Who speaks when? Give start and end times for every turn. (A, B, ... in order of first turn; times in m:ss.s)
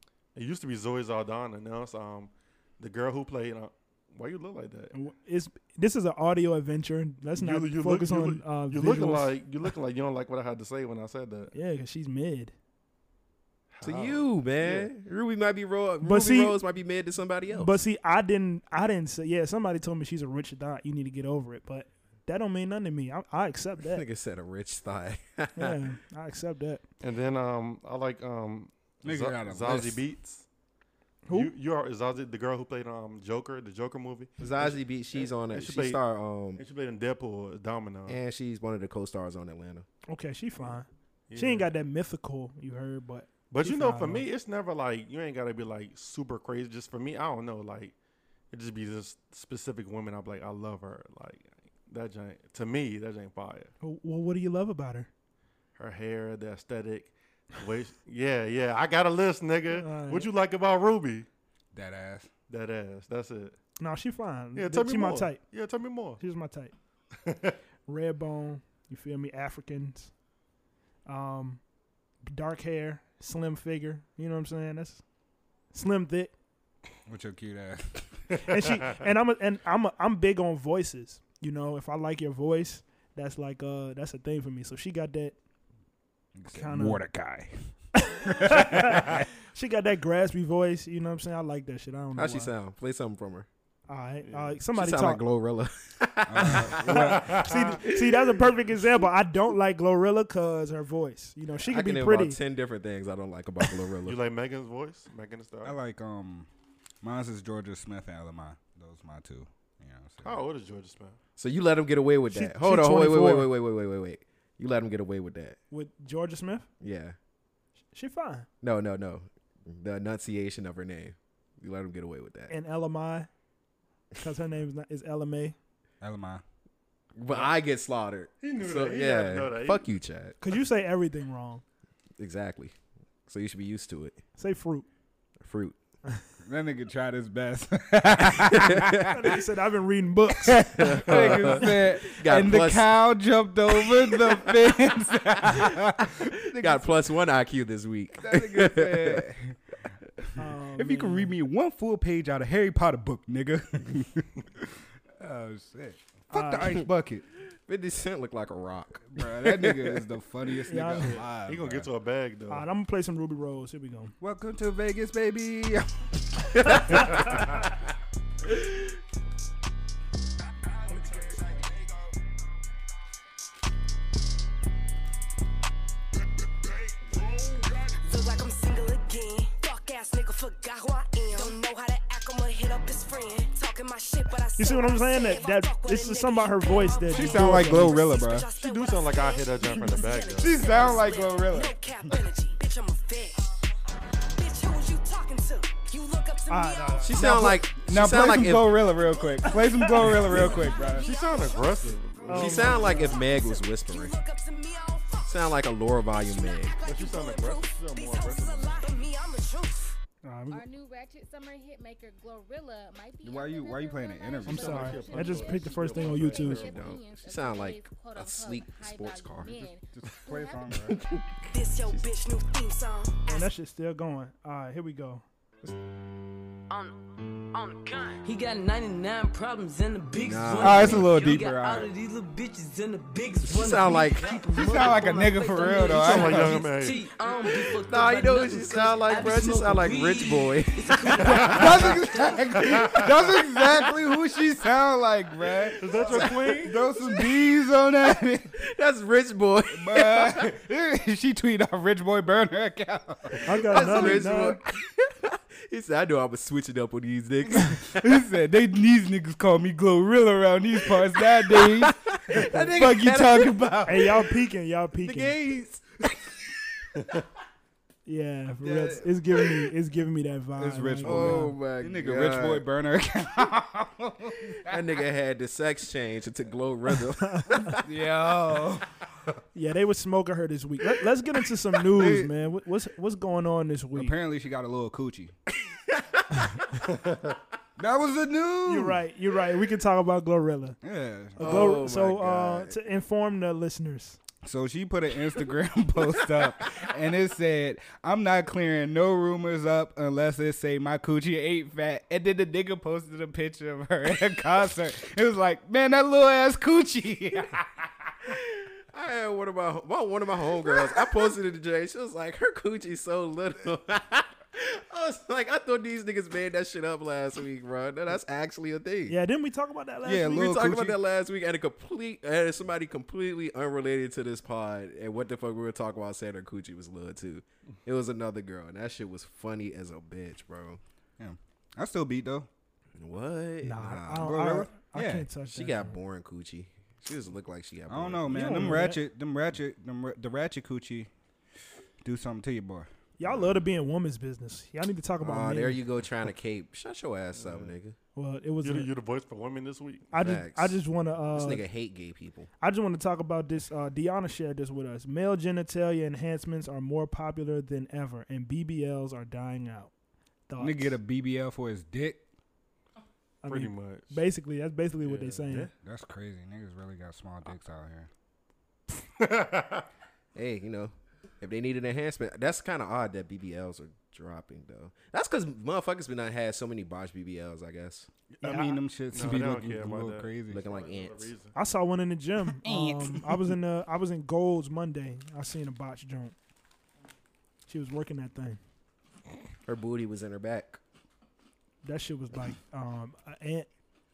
0:00.4-0:04.9 A
0:04.9-0:09.3 B
0:07.4-0:11.5 A
0:11.5-0:12.5 B
0:13.7-0:14.9 A
0:13.8-0:17.8 C
0:16.0-0:16.6 B
0:17.5-0:24.0 B
0:23.8-0:25.8 C
0:25.6-0:26.8 B
0:27.0-0:30.4 A
0:29.0-0:30.0 D
0:31.3-0:31.5 B
0:31.3-0:36.0 A
0:34.4-0:36.6 C
0:36.6-0:38.2 A
0:38.1-0:39.9 C
0:40.1-0:44.3 B
0:41.3-0:41.7 A
0:43.5-0:48.0 A
0:48.5-0:53.7 A
0:53.8-0:55.1 B
0:55.8-1:01.3 A
0:59.8-1:00.3 B
1:01.7-1:02.3 D
1:02.5-1:03.6 A
1:03.8-1:05.4 B
1:04.6-1:06.2 A
1:06.2-1:06.7 B
1:07.2-1:07.6 A
1:07.9-1:10.1 B
1:11.1-1:11.6 B
1:12.3-1:15.0 B
1:15.7-1:16.3 B
1:17.1-1:18.3 D
1:18.4-1:25.4 B
1:26.4-1:29.3 D
1:26.5-1:27.0 B
1:28.0-1:32.5 B
1:32.2-1:33.5 C
1:33.9-1:35.2 B
1:34.3-1:34.5 A
1:34.7-1:38.5 C
1:36.3-1:37.4 D
1:36.9-1:37.6 A
1:36.9-1:42.4 B
1:41.6-1:44.2 C
1:44.0-1:45.8 A
1:45.6-1:46.5 D
1:47.0-1:50.4 D
1:50.2-1:51.2 A
1:51.4-1:55.6 C
1:52.3-1:53.5 B
1:55.7-1:56.7 B
1:56.8-1:57.2 C
1:58.0-1:58.5 B
1:58.6-2:02.5 C
2:02.5-2:03.3 B
2:04.2-2:05.6 B
2:06.0-2:06.4 D
2:07.2-2:10.4 C
2:07.3-2:07.5 A
2:08.4-2:09.9 A
2:10.4-2:11.6 B
2:12.2-2:12.8 C
2:13.3-2:14.2 C
2:14.4-2:14.9 B
2:15.4-2:15.8 C
2:16.4-2:19.4 D
2:18.4-2:19.3 C
2:19.1-2:20.8 B
2:20.4-2:26.9 D
2:20.7-2:22.9 C
2:21.1-2:21.4 A
2:23.8-2:24.7 C
2:25.5-2:29.3 C
2:28.2-2:29.6 D
2:30.2-2:37.2 D
2:30.4-2:31.3 B
2:36.3-2:36.8 B
2:37.7-2:40.0 C
2:39.1-2:41.9 D
2:40.7-2:41.2 B
2:40.9-2:42.7 A
2:42.5-2:44.1 B
2:44.2-2:47.1 D
2:46.7-2:47.2 C
3:04.6-3:08.1 B
3:04.7-3:06.0 E
3:07.0-3:08.5 D
3:08.5-3:10.6 A
3:10.4-3:12.1 D
3:10.8-3:11.0 E
3:16.4-3:17.0 E
3:16.5-3:17.6 B
3:17.0-3:18.9 C
3:17.2-3:21.1 D
3:20.6-3:20.9 E
3:20.8-3:23.2 A
3:22.3-3:23.2 B
3:22.3-3:24.2 C
3:23.5-3:24.2 E
3:25.2-3:26.8 C
3:26.4-3:28.8 E
3:26.8-3:29.0 A
3:30.2-3:30.6 B
3:30.5-3:40.9 F
3:33.2-3:35.1 D
3:34.5-3:36.7 B
3:34.5-3:36.8 A
3:36.5-3:39.7 C
3:39.9-3:41.0 D
3:40.8-3:42.1 C
3:43.3-3:45.2 B
3:46.7-4:03.0 G
3:50.2-3:51.1 C
3:50.6-3:51.9 D
3:53.4-3:54.4 C
3:54.3-3:56.6 D
3:55.9-3:57.1 A
3:57.4-4:01.9 C
4:01.2-4:08.5 D
4:01.3-4:01.6 A
4:02.6-4:03.0 A
4:05.8-4:06.8 A
4:06.0-4:07.2 C
4:08.6-4:10.5 C
4:09.7-4:14.5 D
4:13.4-4:14.6 B
4:13.5-4:18.1 C
4:17.5-4:24.2 D
4:21.3-4:24.0 C
4:23.9-4:25.4 B
4:25.0-4:26.2 D
4:28.1-4:31.5 B
4:28.6-4:29.1 D
4:30.6-4:34.8 D
4:31.0-4:32.6 C
4:34.7-4:37.8 C
4:37.3-4:37.7 B
4:37.6-4:39.0 D
4:39.5-4:44.2 B
4:41.9-4:42.3 D
4:44.0-4:45.3 D
4:46.0-4:46.2 C
4:46.9-4:47.4 A
4:47.8-4:49.0 D
4:48.7-4:50.8 B
4:50.8-4:51.8 D
4:51.4-4:54.2 B
4:51.4-4:52.7 C
4:54.4-5:07.9 D
5:08.3-5:19.2 C
5:19.1-5:20.6 B
5:20.0-5:21.0 D
5:20.3-5:30.8 C
5:31.2-5:32.5 D
5:33.0-5:34.3 C
5:33.6-5:36.0 B
5:34.1-5:35.3 D
5:35.5-5:38.8 C
5:37.9-5:41.1 D
5:38.3-5:39.0 B
5:42.0-5:42.9 D
5:43.2-5:45.8 B
5:43.2-5:43.6 C
5:45.2-5:48.0 C
5:47.3-5:47.8 A
5:48.2-5:48.9 B
5:48.6-5:50.1 A
5:50.1-5:51.6 B
5:50.2-5:50.8 C
5:51.3-5:52.5 C
5:52.6-5:59.9 B
6:00.5-6:01.0 B
6:00.6-6:02.2 D
6:03.4-6:05.7 B
6:03.5-6:04.2 A
6:05.0-6:05.7 A
6:05.8-6:08.1 D
6:09.2-6:09.9 A
6:10.4-6:18.1 C
6:18.4-6:18.8 B
6:18.4-6:20.6 D
6:19.1-6:21.6 A
6:20.5-6:21.3 C
6:21.6-6:26.4 B
6:22.5-6:23.4 D
6:27.7-6:28.6 B
6:29.7-6:30.8 C
6:31.8-6:33.7 B